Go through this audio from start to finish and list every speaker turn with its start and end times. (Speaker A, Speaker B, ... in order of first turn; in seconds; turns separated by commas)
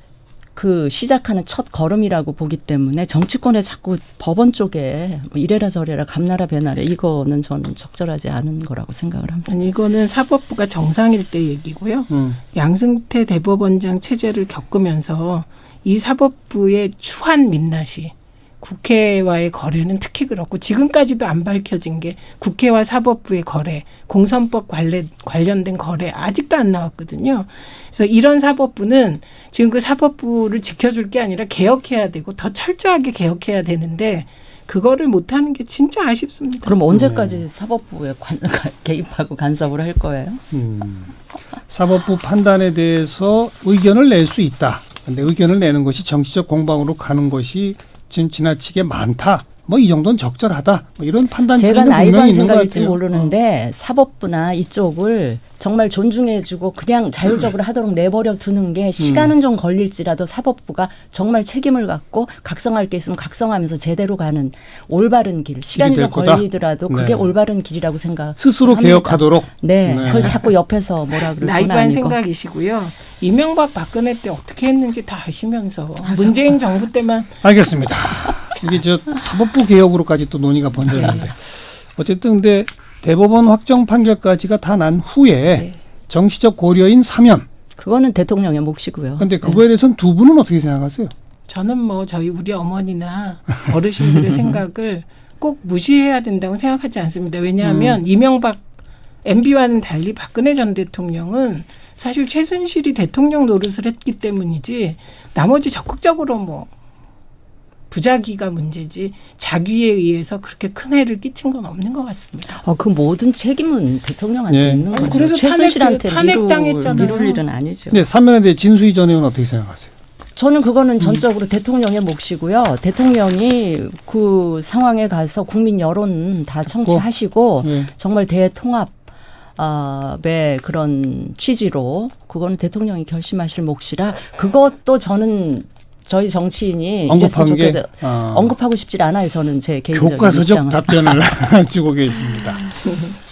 Speaker A: 0.6-9.5, Speaker B: 9.4-36.8, Speaker C: 12.1-12.4, Speaker A: 36.6-40.4, Speaker C: 36.9-37.4, Speaker C: 40.5-53.3, Speaker A: 51.5-72.2, Speaker C: 59.0-59.3, Speaker C: 65.7-67.3, Speaker C: 68.4-70.5, Speaker B: 71.2-77.3, Speaker A: 76.0-76.5, Speaker C: 77.4-87.5, Speaker B: 81.0-81.3, Speaker A: 87.8-89.4, Speaker C: 89.2-91.1, Speaker B: 91.5-98.6, Speaker B: 99.2-106.7, Speaker B: 107.9-112.6, Speaker A: 112.5-118.0, Speaker C: 114.5-114.9, Speaker B: 114.9-117.4, Speaker C: 117.9-119.9, Speaker A: 120.3-128.9, Speaker C: 126.7-127.0, Speaker C: 127.6-127.9, Speaker A: 129.6-141.0, Speaker C: 137.1-138.5, Speaker C: 139.9-142.9